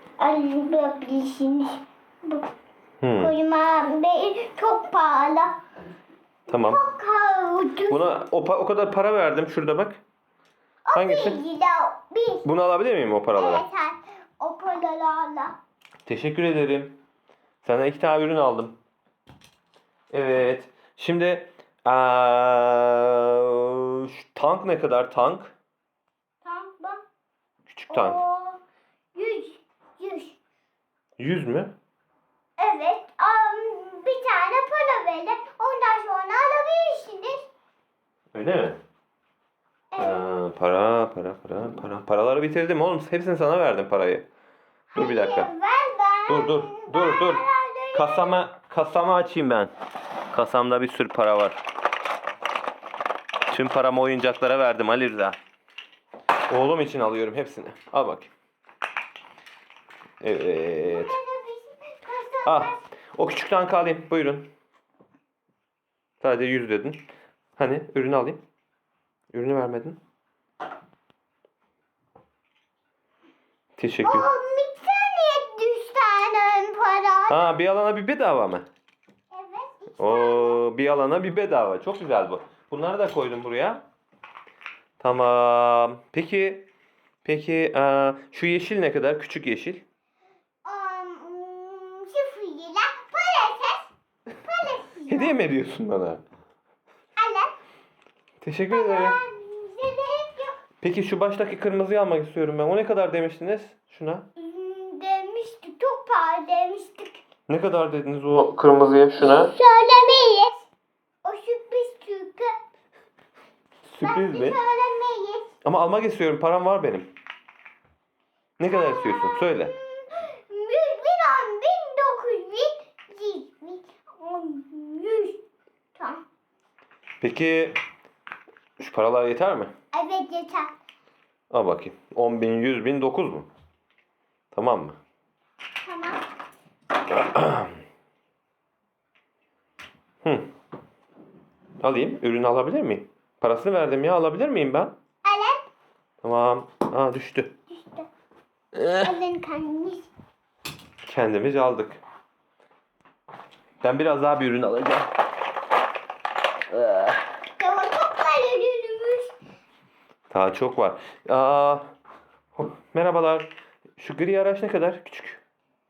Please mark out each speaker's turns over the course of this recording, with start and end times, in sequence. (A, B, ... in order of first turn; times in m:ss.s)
0:00.2-0:02.5 A
0:03.0-0:03.3 B
0:03.2-0:05.6 A
0:06.5-0:06.8 B
0:06.5-0:08.0 A
0:07.9-0:10.0 B
0:10.9-0:12.5 A
0:11.0-0:11.4 B
0:12.4-0:13.6 B
0:13.4-0:15.5 A
0:16.0-0:17.0 B
0:17.6-0:18.8 B
0:20.1-0:25.5 B
0:26.4-0:27.0 A
0:27.7-0:28.2 B
0:27.9-0:28.6 A
0:29.1-0:30.4 A
0:31.2-0:31.7 B
0:32.6-0:37.4 A
0:38.3-0:38.8 B
0:39.9-0:40.2 A
0:40.0-0:44.3 B
0:44.9-0:48.3 A
0:45.0-0:45.5 B
0:46.3-0:47.4 B
0:48.0-0:49.7 B
0:50.3-0:51.6 B
0:53.5-0:55.4 B
0:56.5-0:58.3 B
1:00.2-1:01.2 B
1:00.8-1:02.8 A
1:02.4-1:04.5 B
1:06.2-1:07.0 B
1:07.6-1:08.4 B
1:09.3-1:10.0 B
1:13.8-1:14.3 B
1:14.0-1:17.4 A
1:17.3-1:18.7 B
1:19.3-1:20.6 A
1:20.0-1:23.8 B
1:25.0-1:26.7 B
1:27.2-1:29.8 B
1:30.6-1:35.4 A
1:35.1-1:36.2 B
1:37.2-1:37.5 A
1:38.4-1:39.2 B
1:38.7-1:40.6 A
1:40.8-1:44.3 B
1:44.4-1:47.2 A
1:47.5-1:49.5 B
1:49.2-1:50.7 A
1:51.2-1:52.5 A
1:53.8-1:54.6 B
1:54.0-1:55.5 A
1:55.6-1:57.1 B
1:58.6-1:59.7 B
1:58.7-2:05.4 A
2:05.9-2:06.2 A
2:07.2-2:07.8 B
2:08.8-2:09.7 B
2:09.9-2:10.7 A
2:11.5-2:13.5 B
2:14.5-2:15.0 B
2:15.8-2:16.2 A
2:17.1-2:17.7 B
2:20.2-2:20.5 B
2:21.8-2:24.9 B
2:25.2-2:25.6 A
2:26.2-2:27.5 B
2:27.7-2:28.1 A
2:28.8-2:30.1 A
2:31.1-2:32.0 B
2:33.8-2:35.1 B
2:36.7-2:37.1 B
2:37.6-2:39.3 A
2:40.3-2:41.9 B
2:42.6-2:45.4 B